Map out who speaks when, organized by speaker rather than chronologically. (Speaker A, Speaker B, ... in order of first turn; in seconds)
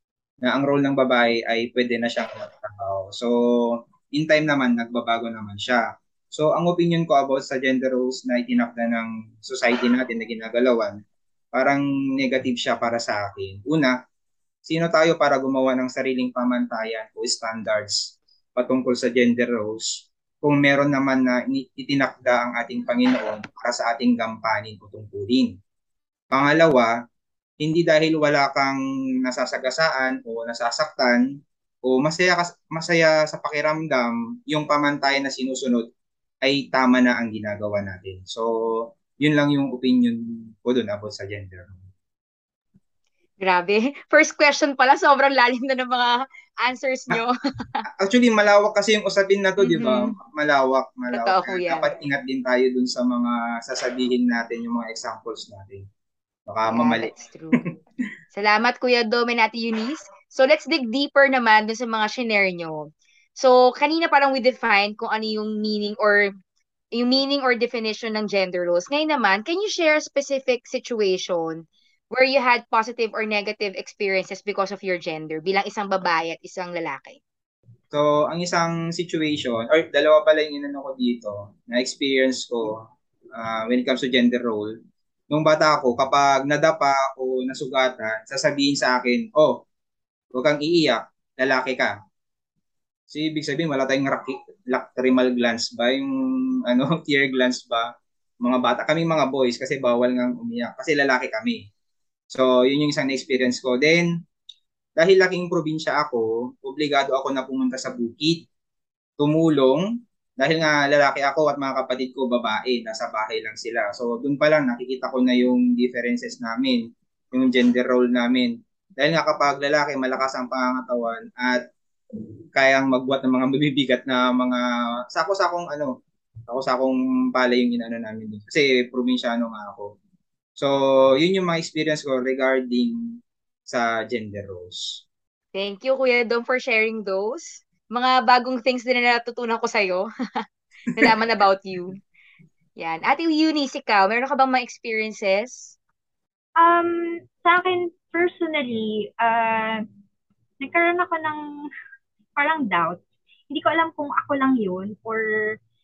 Speaker A: 0.4-11.0, 11.5-13.9, 14.7-25.6, 26.3-26.9, 27.6-31.2, 31.9-35.9, 36.4-41.8, 48.0-55.8, 56.5-57.1, 77.9-82.8, 83.3-84.7, 85.3-89.6, 90.3-91.9, 93.1-96.1, 96.7-97.9, 98.4-101.7, 102.3-104.1, 105.0-108.5, 109.2-109.9, 110.4-121.6, 122.5-125.9, 126.5-129.9, 130.6-135.0
Speaker B: 43.4-47.8, 49.6-50.2, 51.1-51.9, 56.7-57.6, 58.3-66.3, 66.9-77.2, 135.5-140.1, 140.9-142.0, 142.8-145.8
Speaker C: 146.6-149.8, 150.6-151.4, 152.4-155.2